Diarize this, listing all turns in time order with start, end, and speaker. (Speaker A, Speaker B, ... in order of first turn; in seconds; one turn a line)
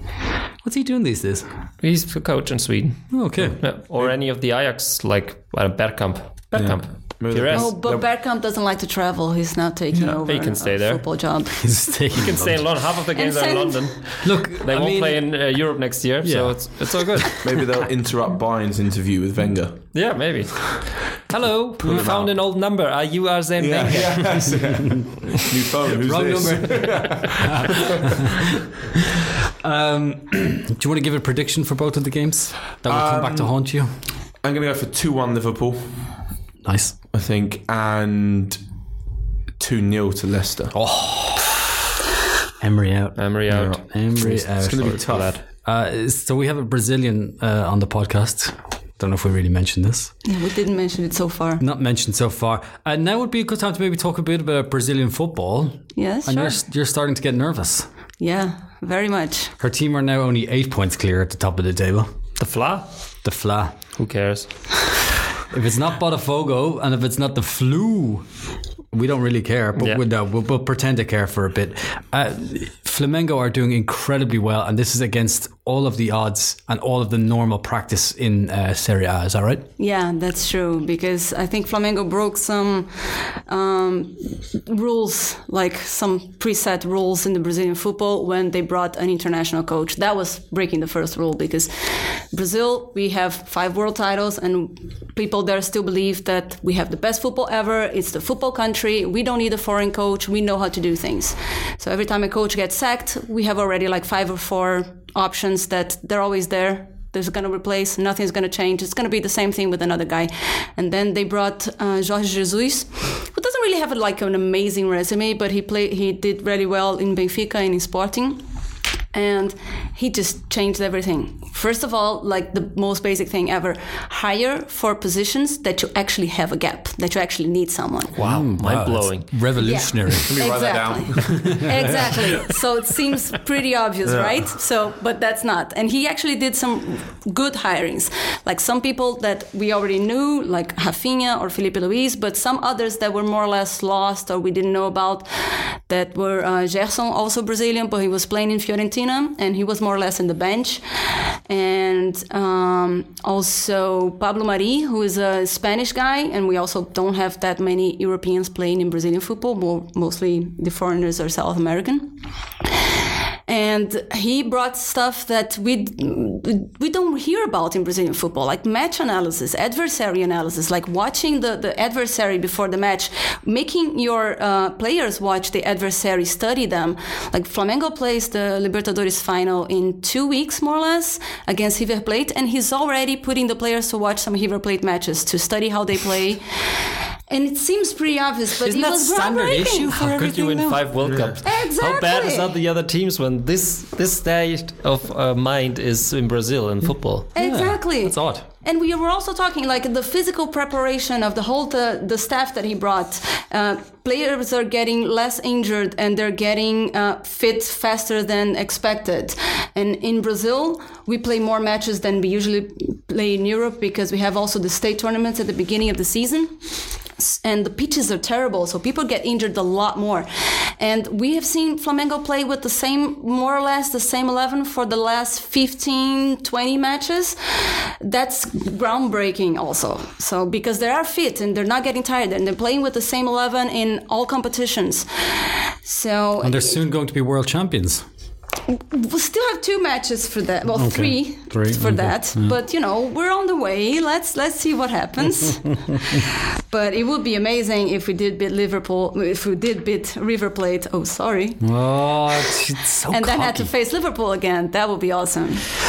Speaker A: 0.6-1.5
Speaker B: 1.8-7.7
Speaker A: 3.1-3.6
Speaker C: 6.5-8.1
Speaker D: 7.5-11.8
Speaker B: 10.3-11.0
Speaker A: 11.6-12.6
Speaker B: 12.1-17.5
Speaker D: 13.1-13.9
Speaker A: 14.2-15.2
Speaker A: 16.2-17.5
Speaker C: 17.4-19.9
Speaker B: 19.9-24.6
Speaker C: 21.8-22.3
Speaker C: 23.6-28.2
Speaker A: 24.5-25.0
Speaker A: 25.9-28.4
Speaker A: 29.6-33.9
Speaker C: 32.9-33.5
Speaker C: 34.4-36.0
Speaker A: 36.6-37.0
Speaker C: 37.1-38.6
Speaker C: 39.6-40.7
Speaker A: 40.7-41.6
Speaker A: 42.6-45.1
Speaker B: 43.2-43.8
Speaker C: 43.5-45.4
Speaker B: 44.8-45.4
Speaker A: 45.6-50.1
Speaker D: 50.2-51.6
Speaker A: 51.6-57.9
Speaker D: 56.0-56.6
Speaker D: 58.2-59.5
Speaker A: 59.6-62.1
Speaker B: 62.4-62.9
Speaker A: 63.2-63.8
Speaker B: 64.0-64.5
Speaker A: 65.5-68.3
Speaker A: 68.9-79.6
Speaker D: 79.8-118.4
Speaker D: 119.1-128.1
Speaker B: 128.1-129.4
Speaker A: 128.2-130.4
Speaker D: 129.6-150.8
Speaker C: 130.3-132.1
Speaker C: 134.1-134.4
Speaker D: 151.5-162.2
Speaker D: 163.5-186.4
Speaker D: 187.3-189.9
Speaker A: 188.6-190.8
Speaker B: 189.9-197.3
Speaker C: 191.0-191.4
Speaker D: 191.4-192.5
Speaker D: 197.3-216.6
Speaker A: 197.4-198.4
Speaker D: 217.2-236.8
Speaker A: 236.4-238.0
Speaker D: 238.7-251.6
Speaker A: 240.7-242.5
Speaker A: 251.6-253.7
Speaker D: 253.1-255.6